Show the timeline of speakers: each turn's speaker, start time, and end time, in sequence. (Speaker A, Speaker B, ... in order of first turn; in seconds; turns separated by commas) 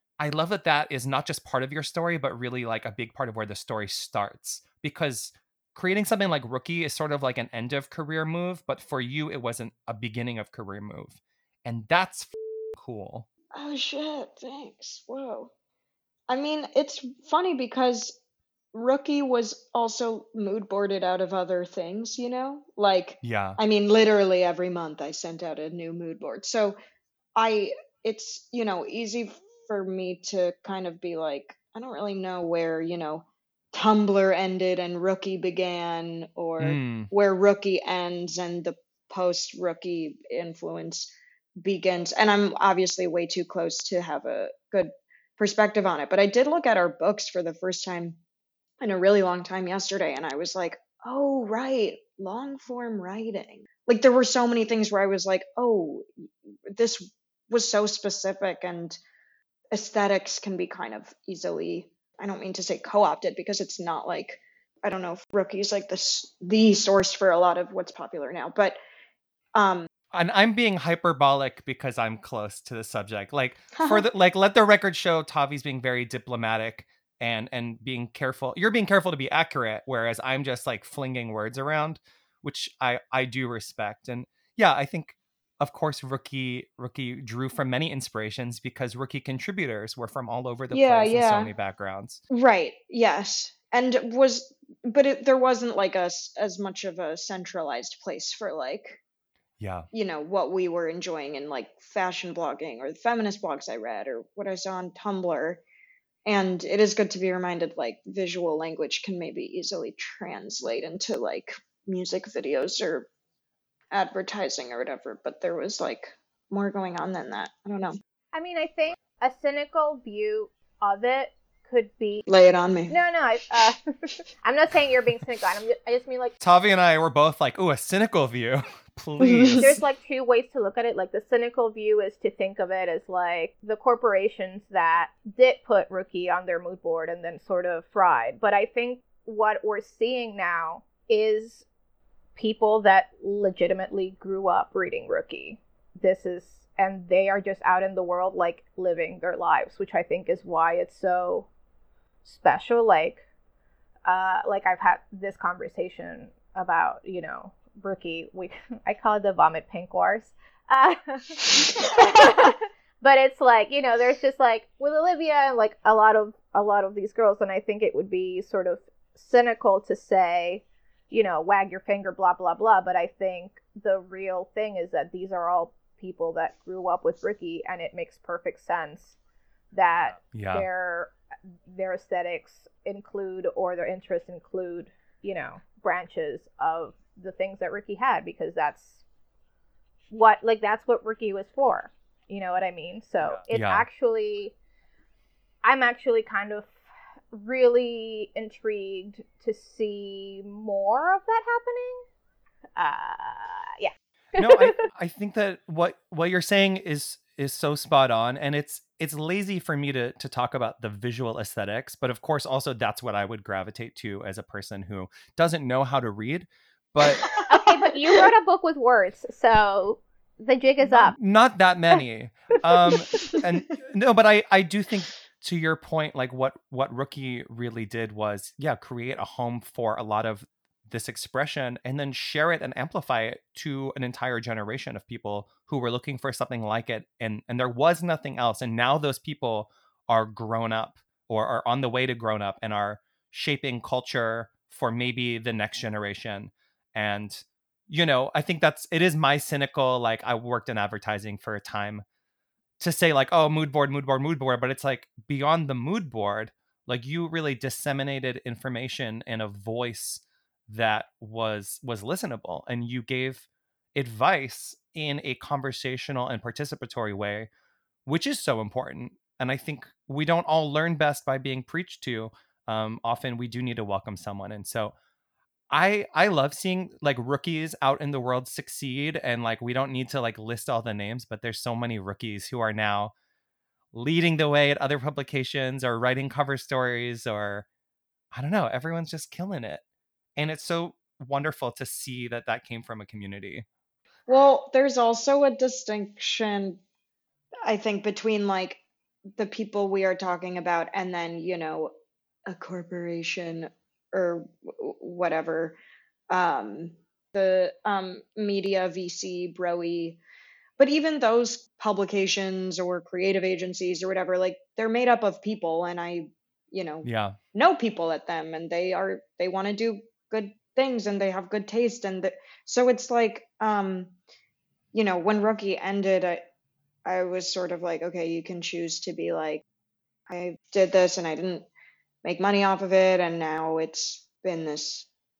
Speaker A: 0.2-13.3, Speaker B: 13.5-15.5, Speaker B: 16.3-18.2, Speaker B: 18.7-26.8, Speaker A: 23.2-23.6, Speaker B: 27.4-48.2, Speaker A: 36.6-37.1, Speaker B: 48.8-56.1, Speaker B: 56.7-59.0, Speaker B: 59.7-68.8, Speaker B: 69.5-69.9, Speaker A: 70.1-92.2, Speaker B: 73.7-74.1, Speaker B: 90.7-91.5, Speaker B: 92.3-99.0, Speaker A: 99.6-99.9, Speaker B: 99.9-105.6, Speaker B: 106.3-113.1, Speaker B: 113.9-118.0, Speaker C: 118.3-122.3, Speaker B: 122.3-123.0, Speaker C: 122.9-123.8, Speaker C: 124.4-126.3, Speaker A: 126.4-129.8, Speaker B: 129.2-129.8, Speaker C: 129.6-141.7, Speaker C: 142.4-151.5, Speaker C: 152.2-153.2, Speaker C: 154.1-179.2, Speaker C: 179.7-181.1, Speaker A: 180.3-180.7, Speaker C: 181.7-189.0, Speaker C: 190.1-194.6, Speaker A: 193.2-193.9, Speaker C: 195.6-202.0, Speaker C: 202.8-204.9, Speaker A: 204.4-217.4, Speaker C: 217.5-221.2, Speaker B: 217.6-217.9, Speaker A: 220.8-252.0, Speaker C: 222.9-223.4, Speaker A: 252.8-267.5, Speaker A: 268.1-274.9, Speaker A: 275.7-283.1, Speaker A: 283.9-287.7, Speaker A: 288.3-289.8, Speaker A: 290.4-293.7, Speaker B: 294.3-296.8, Speaker B: 297.6-298.8, Speaker B: 299.3-301.9, Speaker B: 302.5-305.8, Speaker B: 306.3-310.2, Speaker B: 310.8-324.2, Speaker A: 317.0-317.4, Speaker B: 324.9-326.4, Speaker B: 327.1-329.6, Speaker B: 330.3-331.7, Speaker B: 332.2-335.1